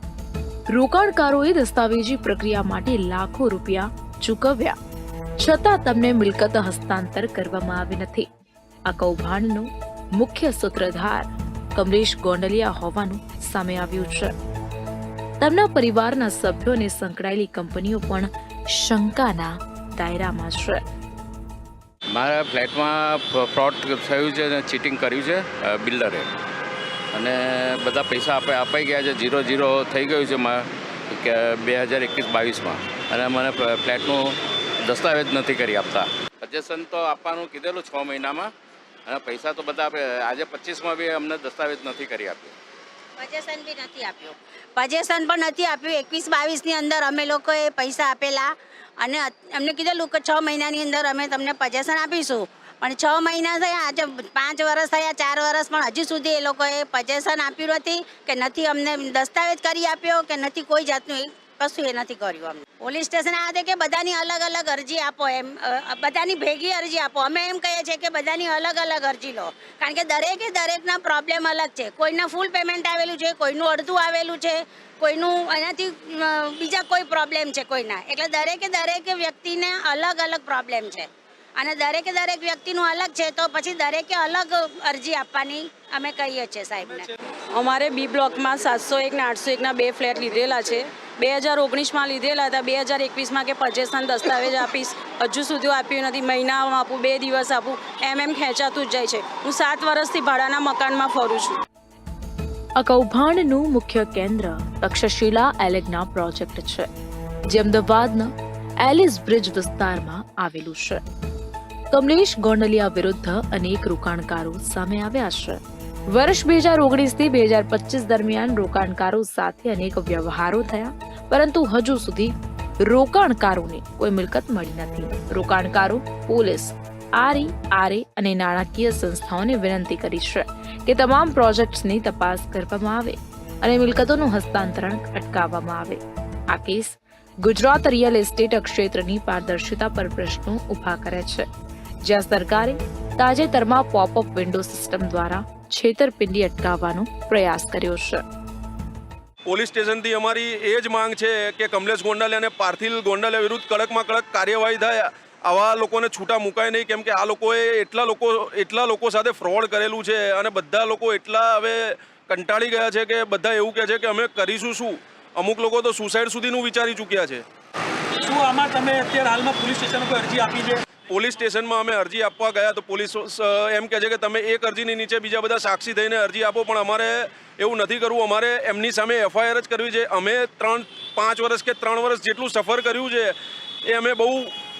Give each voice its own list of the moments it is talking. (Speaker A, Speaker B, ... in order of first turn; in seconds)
Speaker A: 0.7-4.8, 5.4-8.2, 8.9-14.3, 15.4-20.8, 102.8-106.9, 107.5-108.3, 108.8-111.0, 111.9-115.6, 116.1-136.0, 136.5-141.4, 142.0-148.2
Speaker B: 22.1-26.2, 27.1-38.5, 39.1-42.5
Speaker C: 43.2-48.5, 49.0-81.0, 81.6-87.0
Speaker D: 87.5-101.6
Speaker E: 149.4-167.4, 171.1-183.3, 183.9-184.5
Speaker F: 168.2-170.8